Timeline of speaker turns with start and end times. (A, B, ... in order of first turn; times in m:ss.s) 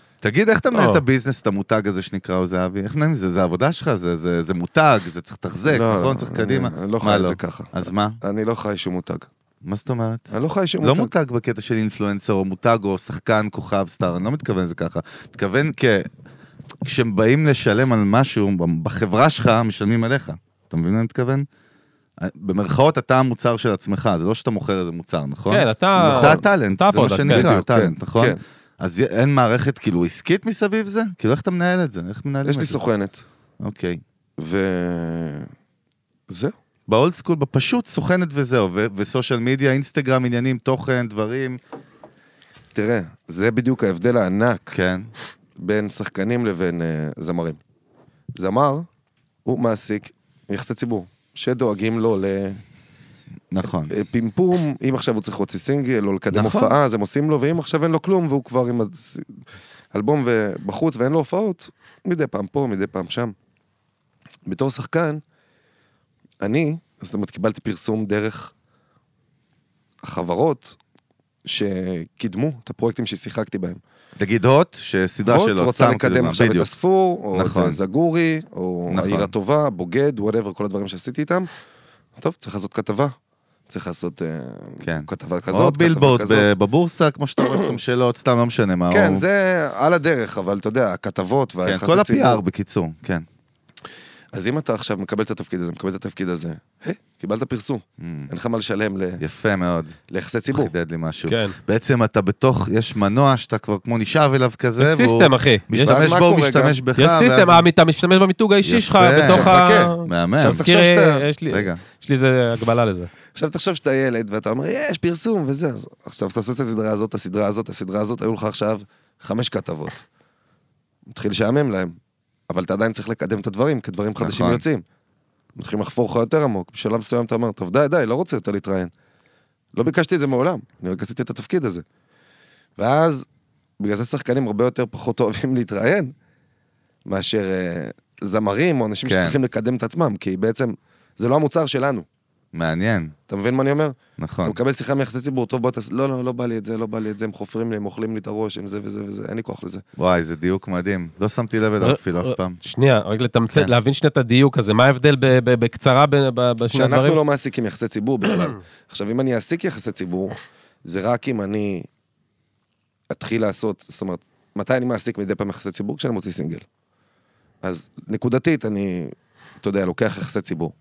0:00.2-0:08.2 A
0:00.7-0:01.0 B
0:05.6-0:09.3 C
0:09.6-0:10.3 A
0:10.3-0:11.1 C
0:10.8-0:16.1 A
0:16.8-0:21.4 A
0:22.2-0:32.8 A
0:25.5-0:27.5 B
0:26.0-0:26.4 C
0:27.3-0:28.4 C
0:32.4-0:33.2 C
0:33.6-0:34.0 A
0:34.4-0:35.5 C
0:36.3-0:36.5 C
0:36.9-0:41.6 A
0:42.7-0:44.8 C
0:44.7-0:45.1 A
0:45.6-0:47.6 C
0:48.3-0:48.9 C
0:49.4-0:52.6 C
0:53.5-0:53.9 A
0:53.9-0:59.4 C
0:56.3-0:56.8 A
0:59.9-1:03.3 C
1:04.4-1:05.2 C
1:06.4-1:08.5 C
1:10.0-1:10.8 C
1:11.4-1:13.8 C
1:14.2-1:16.7 A
1:15.2-1:21.5 C
1:17.3-1:17.8 A
1:18.9-1:19.3 A
1:22.2-1:23.1 C
1:23.7-1:26.5 C
1:24.8-1:29.2 A
1:27.4-1:27.7 C
1:28.9-1:32.4 C
1:31.6-1:33.2 A
1:34.3-1:39.2 C
1:38.0-1:38.3 A
1:39.2-1:40.0 A
1:40.1-1:40.7 C
1:40.5-1:47.6 A
1:41.3-1:41.6 B
1:44.8-1:46.1 B
1:45.8-1:46.8 C
1:47.0-1:53.1 B
1:48.6-1:50.6 A
1:49.2-1:51.2 C
1:51.5-1:51.8 A
1:53.3-2:00.0 C
2:01.1-2:02.0 C
2:02.5-2:04.8 C
2:04.2-2:04.6 A
2:05.6-2:08.9 C
2:09.7-2:11.8 C
2:12.8-2:13.2 C
2:13.8-2:16.1 C
2:17.0-2:22.1 C
2:19.0-2:19.4 A
2:22.5-2:23.1 A
2:23.3-2:29.8 C
2:24.2-2:24.6 A
2:30.0-2:32.6 A
2:31.8-2:37.2 B
2:36.7-2:41.9 C
2:43.1-2:46.6 C
2:47.6-2:50.7 C